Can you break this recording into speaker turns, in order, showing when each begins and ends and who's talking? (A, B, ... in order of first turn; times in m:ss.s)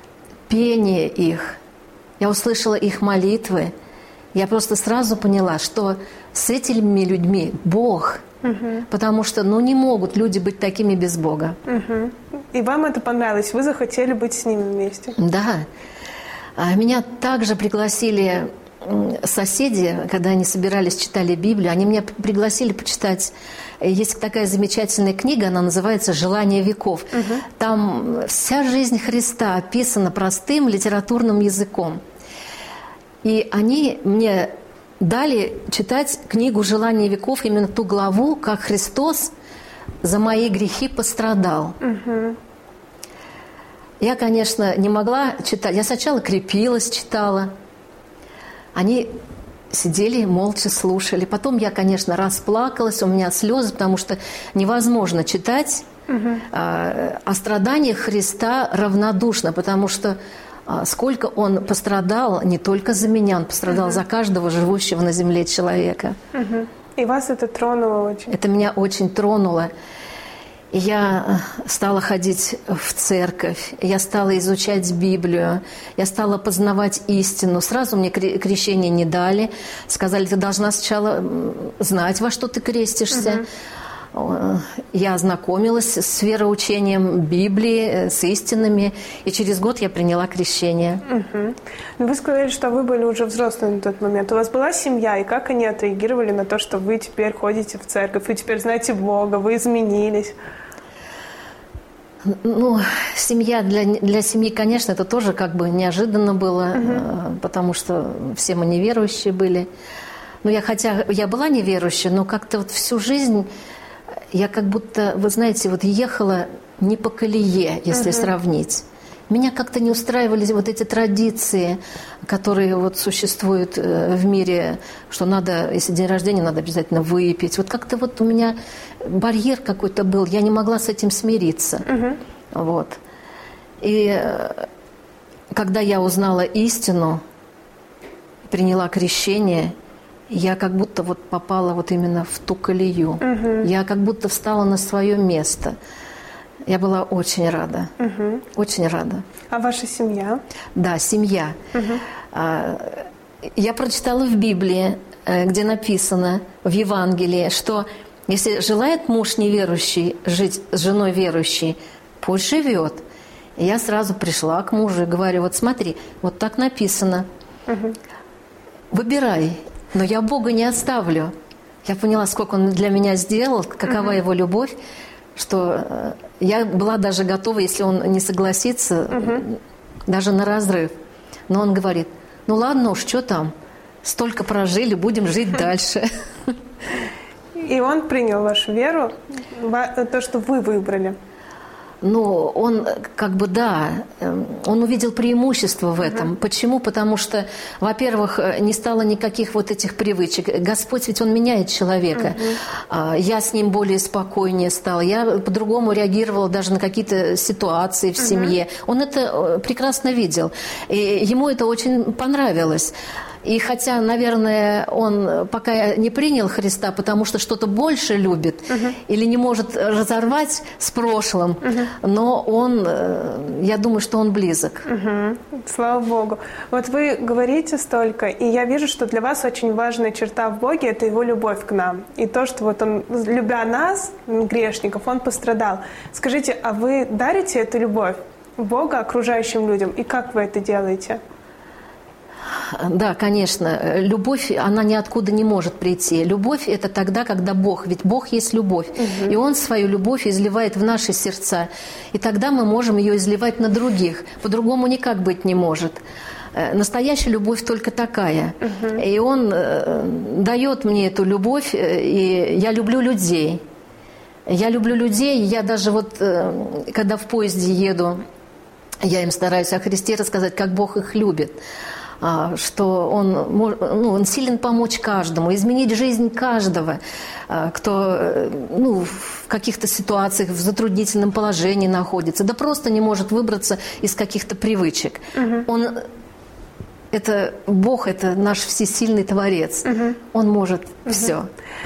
0:00.5-0:01.6 A
0:02.2-0:03.7 A
0:04.3-0:08.2 A
0:08.4-0:08.9 B
0:08.9-0:11.6 A
0:11.7-0:15.2 B
0:15.2-0:15.6 A
0:16.6-0:32.0 A
0:27.1-0:27.4 B
0:33.2-0:39.3 A
0:40.0-0:41.8 A
0:41.8-0:42.4 B
0:44.0-0:47.5 A
0:48.7-0:49.1 A
0:49.7-0:55.8 A
0:56.1-0:56.4 B
0:56.5-1:06.2 A
1:03.7-1:04.0 B
1:06.3-1:08.3 B
1:08.3-1:09.7 A
1:10.7-1:23.4 A
1:23.1-1:23.4 B
1:24.1-1:31.0 A
1:31.0-1:40.3 B
1:42.2-1:49.7 A
1:46.7-1:47.0 B
1:50.4-1:53.5 A
1:54.3-2:11.9 A
1:57.9-1:58.3 B
2:11.8-2:12.2 B
2:12.5-2:13.0 A
2:13.8-2:14.7 A
2:15.5-2:17.2 A
2:18.5-2:19.7 A
2:20.3-2:25.8 A
2:23.2-2:23.7 B
2:26.6-2:27.9 A
2:28.0-2:28.4 B
2:28.5-2:29.2 A
2:29.5-2:30.4 B
2:30.8-2:31.6 A
2:31.7-2:32.0 B
2:32.3-2:43.0 A
2:43.6-2:47.3 A
2:47.7-2:48.0 B
2:48.9-2:54.7 A
2:53.9-2:54.2 B
2:55.4-3:00.9 A
2:59.1-2:59.4 B
3:01.5-3:03.5 A
3:04.0-3:06.6 A
3:07.5-3:11.2 B
3:12.0-3:44.9 A
3:16.0-3:16.3 B
3:22.1-3:22.6 B
3:28.2-3:28.5 B
3:41.6-3:41.9 B
3:44.8-4:01.2 B
4:02.6-4:16.0 A
4:09.0-4:09.3 B
4:16.5-4:23.6 A
4:18.7-4:19.0 B
4:24.5-4:28.2 A
4:29.0-4:31.6 A
4:32.2-4:46.1 A
4:45.3-4:45.7 B
4:47.1-4:51.5 A
4:49.8-4:50.2 B